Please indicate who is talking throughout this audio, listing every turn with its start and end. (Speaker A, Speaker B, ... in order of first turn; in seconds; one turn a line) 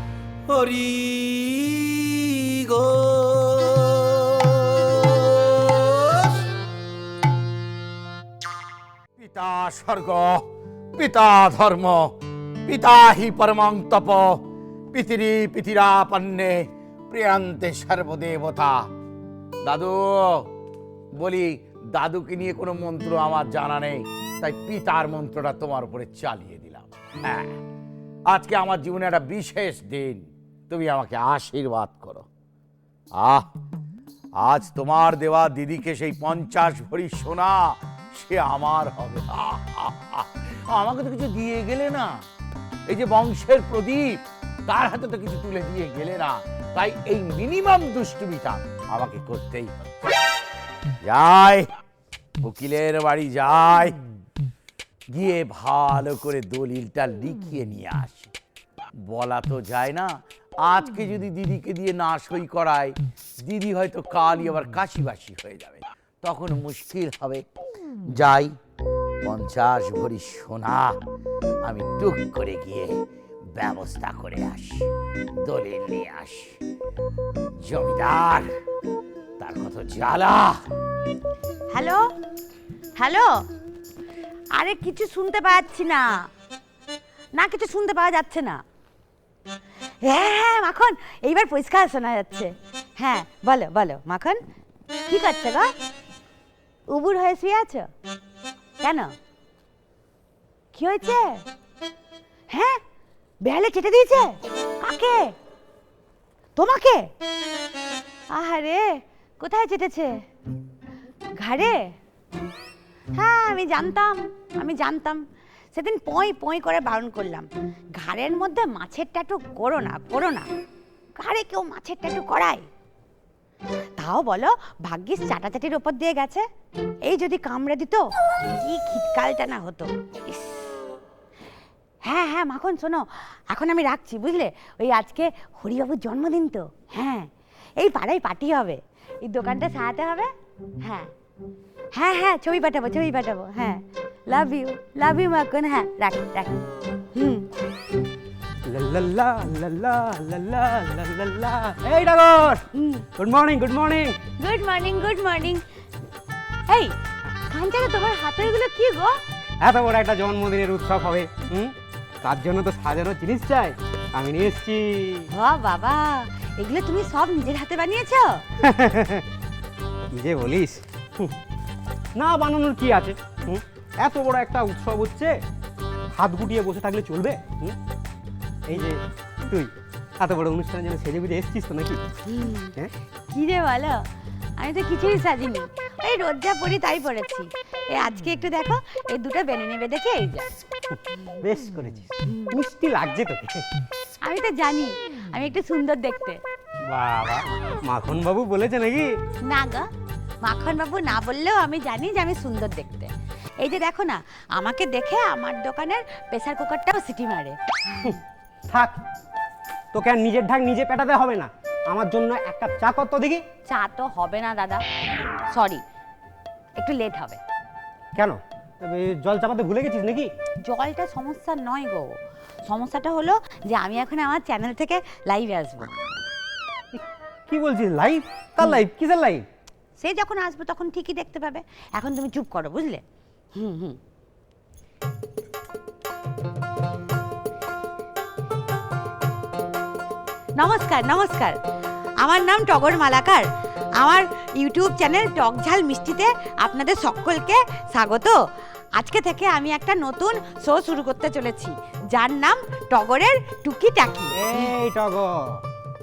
Speaker A: 0.5-6.4
Speaker B: 9.2-18.9
Speaker B: 19.6-20.5
Speaker B: 21.1-27.6
Speaker B: 28.3-32.2
Speaker B: 33.1-33.5
Speaker B: 34.4-42.2
Speaker B: 42.9-49.7
Speaker B: 51.0-51.7
Speaker B: 52.4-54.0
Speaker B: 55.1-58.3
Speaker B: 59.0-67.5
Speaker B: 68.1-68.5
Speaker B: 69.2-71.0
Speaker B: 71.6-73.0
Speaker B: 73.5-74.9
Speaker B: 75.4-76.6
Speaker B: 77.6-78.5
Speaker B: 79.4-80.6
Speaker C: 81.7-82.1
Speaker C: 83.0-83.4
Speaker C: 84.5-86.3
Speaker C: 87.3-88.6
Speaker C: 90.0-94.4
Speaker C: 95.1-95.7
Speaker C: 96.9-97.9
Speaker C: 98.8-99.1
Speaker C: 100.7-101.4
Speaker C: 102.5-102.8
Speaker C: 103.4-105.3
Speaker C: 106.5-107.1
Speaker C: 108.3-110.2
Speaker C: 111.4-111.9
Speaker C: 113.2-120.5
Speaker C: 121.2-122.7
Speaker C: 124.0-126.5
Speaker C: 127.0-130.7
Speaker C: 132.0-141.1
Speaker C: 141.9-146.5
Speaker C: 147.1-147.5
Speaker D: 148.7-154.2
Speaker C: 154.4-155.6
Speaker C: 156.7-156.9
Speaker C: 157.5-159.2
Speaker D: 159.6-165.3
Speaker C: 165.3-168.4
Speaker D: 168.6-169.2
Speaker D: 170.1-171.3
Speaker D: 172.2-175.3
Speaker D: 176.1-177.8
Speaker D: 178.7-182.0
Speaker C: 182.3-182.7
Speaker C: 183.3-184.1
Speaker C: 184.6-190.5
Speaker D: 190.9-193.7
Speaker C: 194.2-196.4
Speaker D: 196.9-199.1
Speaker C: 199.5-199.9
Speaker C: 200.4-207.6
Speaker D: 208.7-209.0
Speaker D: 209.9-213.4
Speaker C: 213.7-214.8
Speaker C: 215.5-215.8
Speaker C: 216.8-217.4
Speaker D: 218.2-220.3
Speaker C: 220.6-226.0
Speaker D: 226.9-229.4
Speaker C: 230.0-233.0
Speaker C: 233.5-234.0
Speaker C: 240.6-241.6
Speaker C: 242.2-243.4
Speaker C: 244.0-248.4
Speaker C: 248.9-254.3
Speaker D: 254.3-255.6